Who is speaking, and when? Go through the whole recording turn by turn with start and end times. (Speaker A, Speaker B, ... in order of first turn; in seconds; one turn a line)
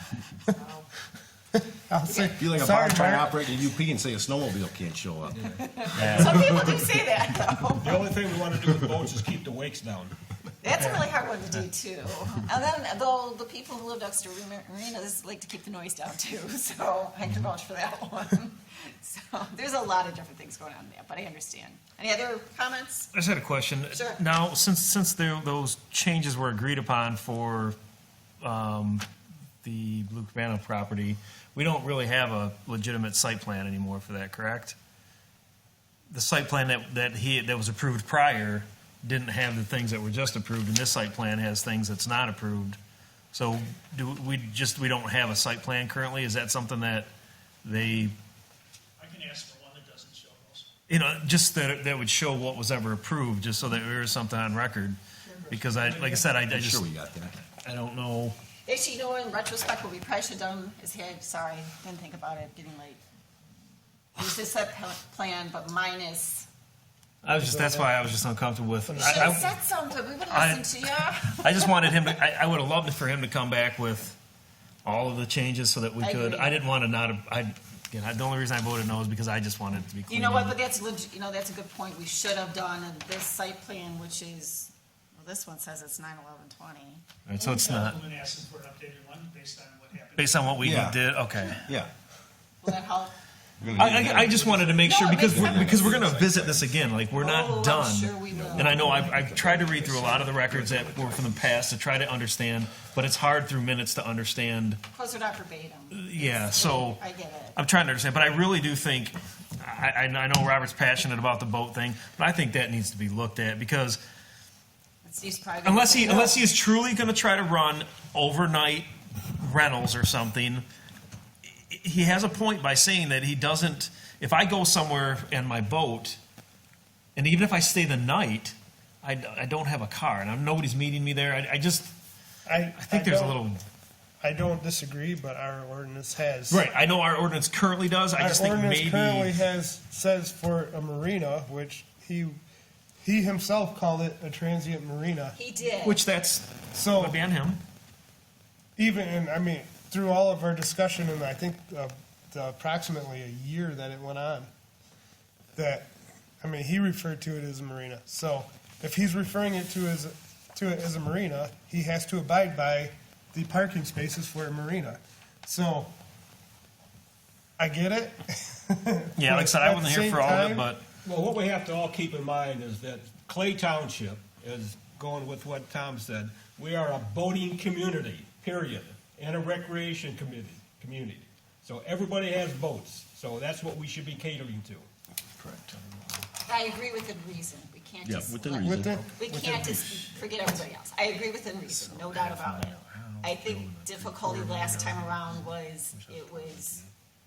Speaker A: 0.3-0.9
Speaker B: 1.7-3.4
Speaker C: 2.2-6.8
Speaker D: 5.3-6.8
Speaker A: 5.5-8.2
Speaker D: 7.8-10.2
Speaker A: 10.6-23.1
Speaker B: 10.8-11.1
Speaker E: 23.1-27.8
Speaker A: 23.9-24.2
Speaker E: 28.4-29.1
Speaker E: 29.6-34.8
Speaker E: 36.1-42.8
Speaker E: 43.3-47.1
Speaker E: 47.6-48.1
Speaker F: 49.0-50.7
Speaker E: 50.9-56.8
Speaker F: 55.8-56.2
Speaker C: 56.5-57.3
Speaker E: 57.6-58.4
Speaker A: 58.6-63.0
Speaker A: 64.2-66.5
Speaker E: 67.2-69.5
Speaker B: 67.4-67.9
Speaker B: 68.9-69.5
Speaker A: 69.0-72.1
Speaker E: 70.3-74.2
Speaker E: 74.8-80.6
Speaker A: 76.0-76.6
Speaker A: 80.1-87.9
Speaker E: 87.3-88.0
Speaker F: 87.5-90.7
Speaker E: 90.2-91.7
Speaker C: 90.6-91.0
Speaker C: 91.7-91.9
Speaker A: 92.6-93.1
Speaker C: 93.6-96.8
Speaker E: 93.8-104.8
Speaker A: 94.8-95.9
Speaker A: 97.1-99.1
Speaker C: 98.3-101.6
Speaker A: 104.9-107.6
Speaker E: 105.9-107.0
Speaker E: 107.5-114.0
Speaker A: 115.0-116.5
Speaker E: 115.7-120.7
Speaker E: 121.4-126.2
Speaker E: 127.2-131.9
Speaker B: 132.5-133.4
Speaker E: 132.7-133.6
Speaker B: 134.2-136.6
Speaker E: 136.5-139.3
Speaker B: 138.2-142.4
Speaker B: 143.0-145.4
Speaker A: 145.3-146.0
Speaker E: 145.8-147.6
Speaker B: 146.7-147.2
Speaker B: 148.8-154.5
Speaker B: 155.6-155.9
Speaker B: 156.4-165.9
Speaker B: 167.6-170.7
Speaker E: 169.2-170.8
Speaker D: 171.0-184.9
Speaker C: 185.4-185.8
Speaker A: 186.5-196.8
Speaker C: 188.0-189.1
Speaker B: 188.6-190.1
Speaker E: 191.7-196.6